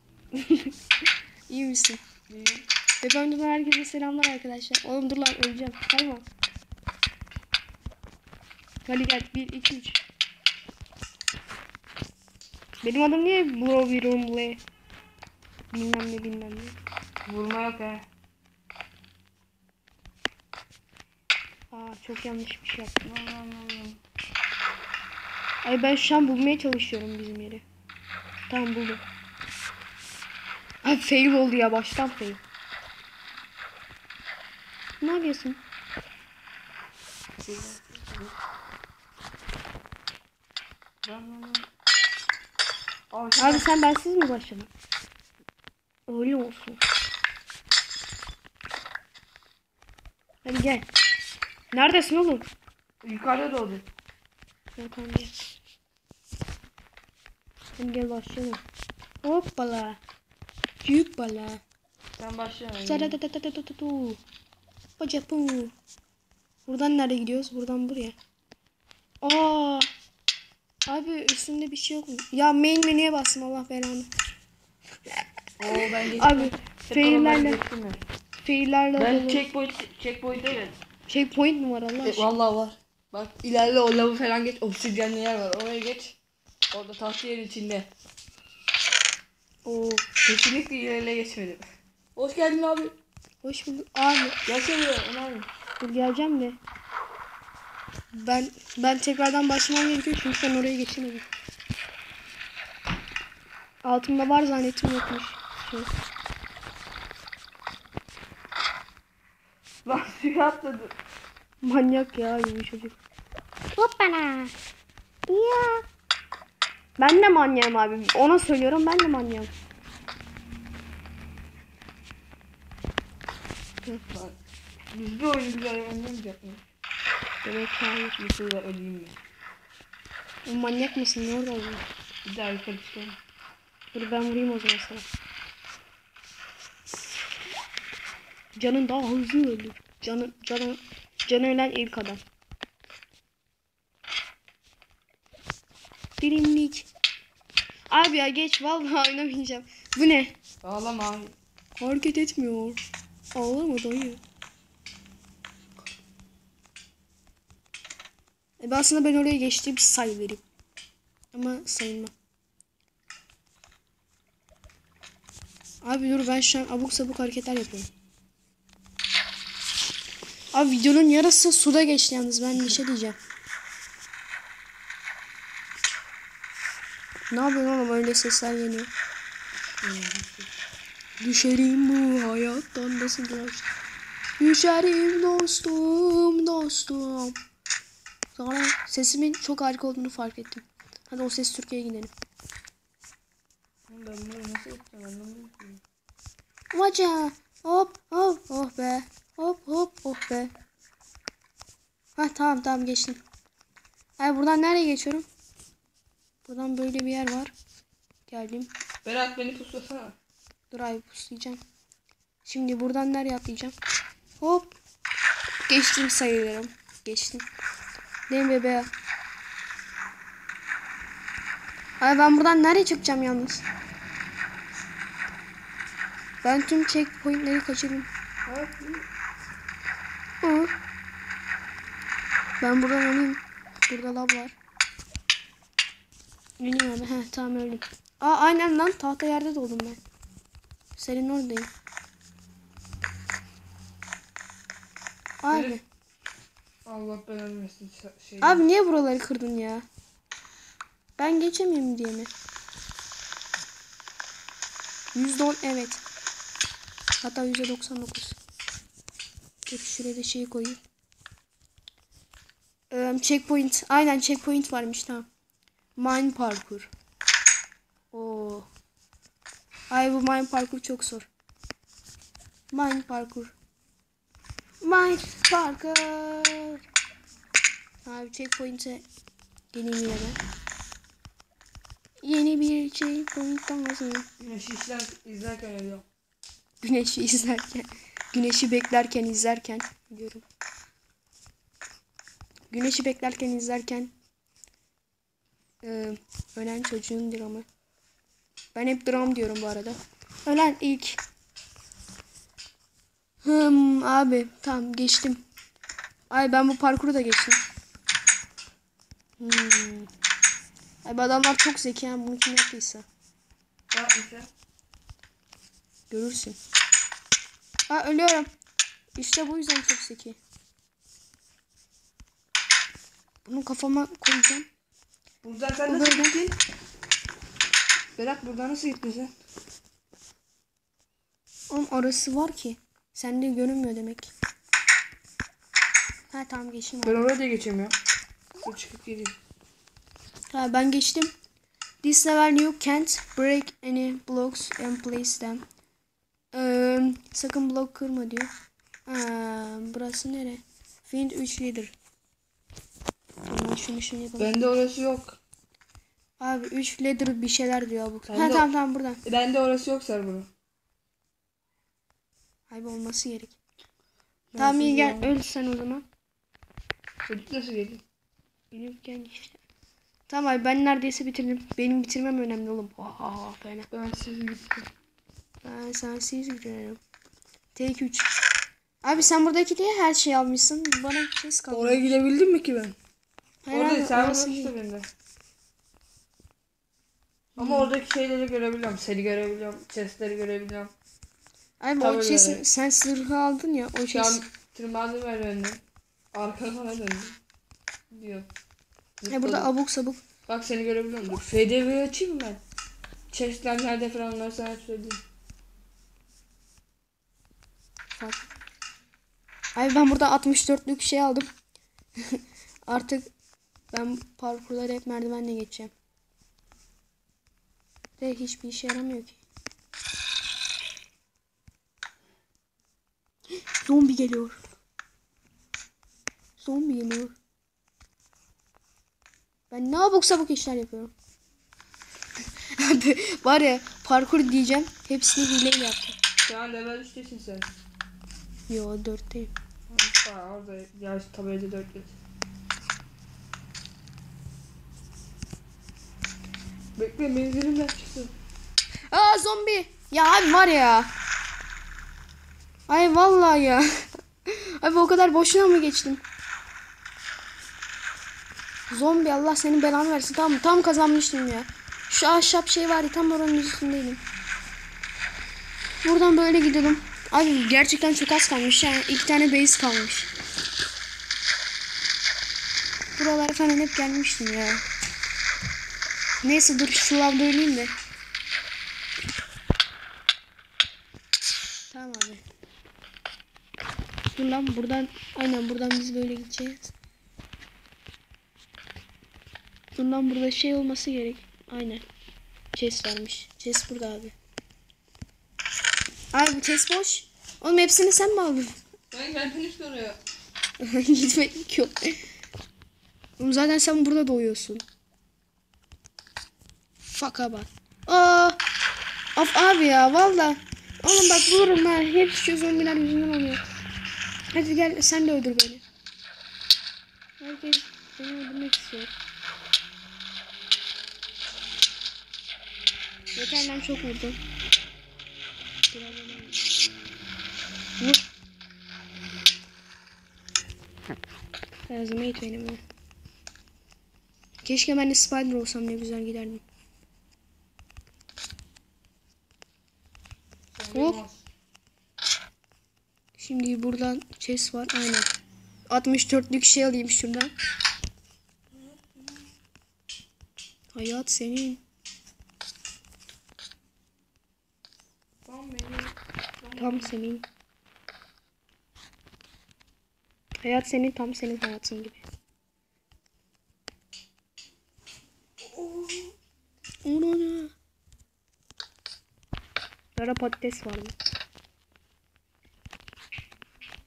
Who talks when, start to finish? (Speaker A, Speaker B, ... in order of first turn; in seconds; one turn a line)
Speaker A: 0.3-0.7
Speaker A: 1.5-2.0
Speaker B: 2.3-2.6
Speaker A: 3.0-6.2
Speaker A: 8.8-10.0
Speaker A: 12.8-14.6
Speaker A: 15.7-16.8
Speaker B: 17.2-18.0
Speaker A: 21.7-23.0
Speaker B: 23.0-24.0
Speaker A: 25.6-27.6
Speaker A: 28.5-29.0
Speaker A: 30.8-32.4
Speaker A: 35.0-35.6
Speaker B: 37.4-38.3
Speaker B: 41.0-41.7
Speaker B: 43.1-43.7
Speaker A: 43.4-44.7
Speaker A: 46.1-46.8
Speaker A: 50.5-50.9
Speaker A: 51.7-52.5
Speaker B: 53.0-53.9
Speaker A: 54.8-55.5
Speaker A: 57.8-58.6
Speaker A: 59.2-60.0
Speaker A: 60.8-61.6
Speaker B: 62.2-63.2
Speaker A: 62.9-64.2
Speaker A: 65.0-65.7
Speaker A: 66.7-68.2
Speaker A: 69.2-69.9
Speaker A: 70.9-74.1
Speaker B: 75.6-78.0
Speaker A: 75.7-77.6
Speaker A: 78.4-79.5
Speaker B: 79.0-80.8
Speaker A: 81.1-82.3
Speaker B: 82.0-86.2
Speaker B: 86.7-87.9
Speaker A: 89.7-90.1
Speaker B: 90.2-91.6
Speaker B: 92.2-92.9
Speaker A: 93.4-94.4
Speaker B: 94.5-95.5
Speaker A: 95.8-96.6
Speaker A: 98.1-101.3
Speaker A: 103.8-105.9
Speaker B: 109.8-110.9
Speaker A: 111.6-113.0
Speaker A: 113.8-114.5
Speaker A: 115.3-115.8
Speaker A: 117.0-119.5
Speaker B: 124.0-124.4
Speaker B: 124.9-126.6
Speaker A: 127.4-128.2
Speaker B: 128.2-129.2
Speaker A: 130.4-131.8
Speaker B: 132.2-133.2
Speaker A: 133.9-135.0
Speaker A: 138.6-142.2
Speaker A: 146.2-146.9
Speaker A: 147.9-150.3
Speaker B: 150.6-151.3
Speaker A: 151.8-152.8
Speaker A: 153.3-154.2
Speaker A: 158.6-160.4
Speaker A: 161.3-162.1
Speaker A: 165.8-167.9
Speaker A: 170.5-173.2
Speaker A: 177.3-178.9
Speaker B: 179.8-180.5
Speaker A: 181.2-183.7
Speaker A: 184.4-187.4
Speaker A: 188.3-192.1
Speaker B: 193.9-195.8
Speaker A: 196.7-200.5
Speaker A: 202.2-203.2
Speaker A: 204.2-205.3
Speaker A: 206.4-207.5
Speaker A: 208.3-208.7
Speaker B: 209.0-210.2
Speaker A: 210.7-211.6
Speaker A: 212.4-213.8
Speaker A: 214.4-214.8
Speaker A: 215.7-217.5
Speaker A: 218.3-218.9
Speaker A: 222.0-223.7
Speaker A: 226.4-228.1
Speaker B: 228.5-229.1
Speaker A: 230.4-230.7
Speaker A: 232.6-234.6
Speaker A: 236.6-240.0
Speaker A: 241.0-241.7
Speaker A: 245.4-245.8
Speaker B: 245.5-245.8
Speaker B: 246.9-248.7
Speaker A: 248.4-249.8
Speaker A: 251.2-252.3
Speaker A: 255.1-256.0
Speaker A: 257.2-258.4
Speaker A: 259.7-260.8
Speaker A: 262.9-265.3
Speaker A: 266.0-266.9
Speaker A: 268.1-268.7
Speaker A: 269.9-271.3
Speaker A: 272.7-273.5
Speaker A: 274.8-276.8
Speaker A: 278.1-279.1
Speaker A: 279.7-280.4
Speaker A: 282.2-284.3
Speaker B: 284.4-286.1
Speaker A: 286.8-290.4
Speaker A: 292.7-294.1
Speaker A: 295.8-297.7
Speaker A: 298.8-301.2
Speaker A: 303.4-305.4
Speaker A: 306.3-307.6
Speaker A: 309.4-310.1
Speaker A: 311.0-313.1
Speaker B: 313.9-314.5
Speaker A: 316.1-316.6
Speaker A: 317.9-318.5
Speaker A: 319.2-320.4
Speaker A: 323.4-324.7
Speaker B: 325.4-326.6
Speaker A: 325.9-326.4
Speaker B: 328.2-329.3
Speaker A: 331.7-334.3
Speaker A: 336.3-337.3
Speaker B: 337.0-337.9
Speaker B: 338.6-339.4
Speaker A: 340.5-341.3
Speaker A: 342.0-345.6
Speaker A: 346.5-348.5
Speaker A: 349.1-351.9
Speaker A: 353.4-354.7
Speaker B: 354.4-355.4
Speaker A: 356.4-359.2
Speaker B: 358.3-358.7
Speaker B: 359.2-360.5
Speaker A: 362.7-363.6
Speaker B: 364.5-365.3
Speaker A: 364.6-366.1
Speaker B: 367.3-368.0
Speaker A: 368.7-369.6
Speaker A: 370.3-373.9
Speaker B: 373.9-374.9
Speaker A: 375.6-377.0
Speaker A: 377.8-378.3
Speaker A: 379.0-382.1
Speaker B: 381.7-382.9
Speaker A: 383.6-384.7
Speaker B: 383.7-385.1
Speaker B: 387.6-390.9
Speaker A: 387.6-387.9
Speaker A: 391.8-394.4
Speaker B: 392.0-392.6
Speaker B: 394.1-395.8
Speaker B: 396.3-397.4
Speaker B: 398.1-398.5
Speaker B: 399.2-399.7
Speaker A: 399.3-400.2
Speaker B: 400.5-402.6
Speaker B: 403.3-405.2
Speaker A: 408.2-408.4
Speaker A: 409.8-411.5
Speaker A: 412.3-413.3
Speaker A: 413.9-415.9
Speaker A: 418.2-419.4
Speaker A: 423.8-424.6
Speaker A: 426.6-427.4
Speaker A: 429.7-431.1
Speaker A: 432.8-436.2
Speaker B: 436.4-437.7
Speaker A: 438.7-439.5
Speaker B: 439.9-442.2
Speaker B: 447.0-448.3
Speaker A: 449.1-451.1
Speaker A: 452.9-453.9
Speaker A: 454.5-456.2
Speaker A: 458.9-464.2
Speaker A: 466.0-470.3
Speaker A: 473.2-474.8
Speaker A: 476.4-477.9
Speaker A: 481.9-482.4
Speaker A: 484.4-486.9
Speaker A: 490.0-492.0
Speaker A: 492.7-494.3
Speaker A: 496.3-498.8
Speaker B: 499.1-500.2
Speaker A: 500.8-502.2
Speaker A: 503.4-504.8
Speaker A: 507.1-508.6
Speaker A: 509.4-513.6
Speaker A: 514.5-515.8
Speaker A: 517.4-519.1
Speaker A: 523.4-524.4
Speaker A: 525.9-526.6
Speaker A: 531.9-532.8
Speaker A: 534.6-536.6
Speaker B: 540.7-541.5
Speaker A: 540.9-541.2
Speaker A: 543.4-545.3
Speaker A: 545.9-547.5
Speaker B: 548.8-549.4
Speaker A: 550.9-551.8
Speaker B: 555.5-557.1
Speaker A: 556.8-557.5
Speaker A: 560.6-562.2
Speaker B: 565.6-566.3
Speaker A: 567.0-567.7
Speaker A: 570.2-571.1